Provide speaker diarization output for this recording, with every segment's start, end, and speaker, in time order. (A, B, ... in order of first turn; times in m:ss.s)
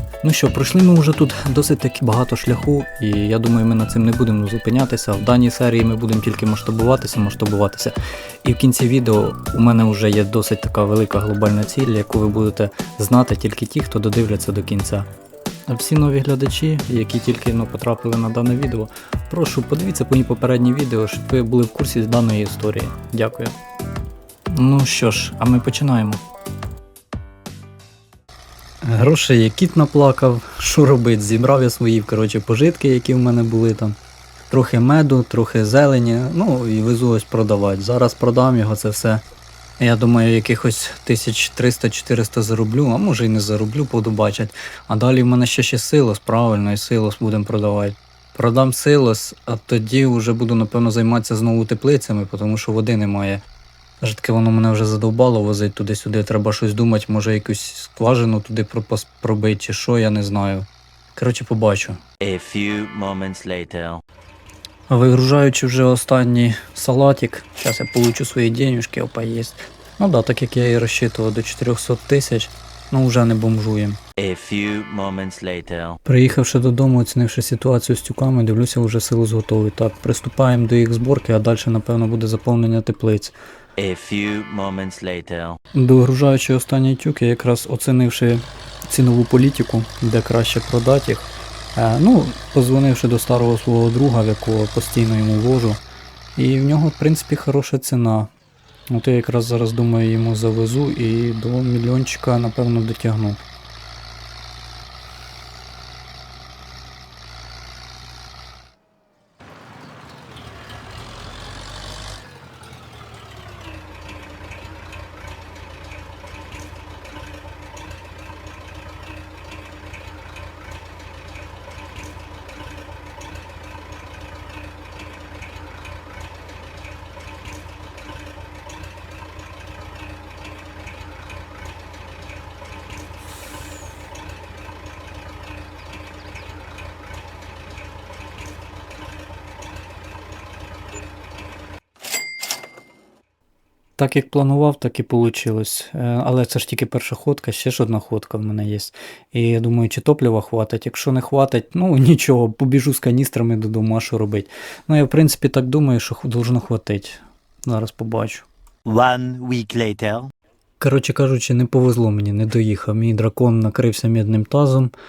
0:00.2-0:15.1 A
0:15.7-0:23.5 A
0:24.5-0:26.2 A
0:28.8-0:34.0 A
0:34.5-0:39.2 A
0:39.8-0:53.4 A
0:54.0-1:02.0 A
1:02.2-1:04.0 B
1:04.9-1:14.0 A
1:14.2-1:16.0 B
1:16.0-1:23.4 A
1:23.8-1:25.6 B
1:25.7-1:35.8 A
1:36.4-1:38.3 A
1:38.9-1:43.4 A
2:24.0-2:38.4 A
2:38.8-2:40.3 B
2:40.8-2:44.9 A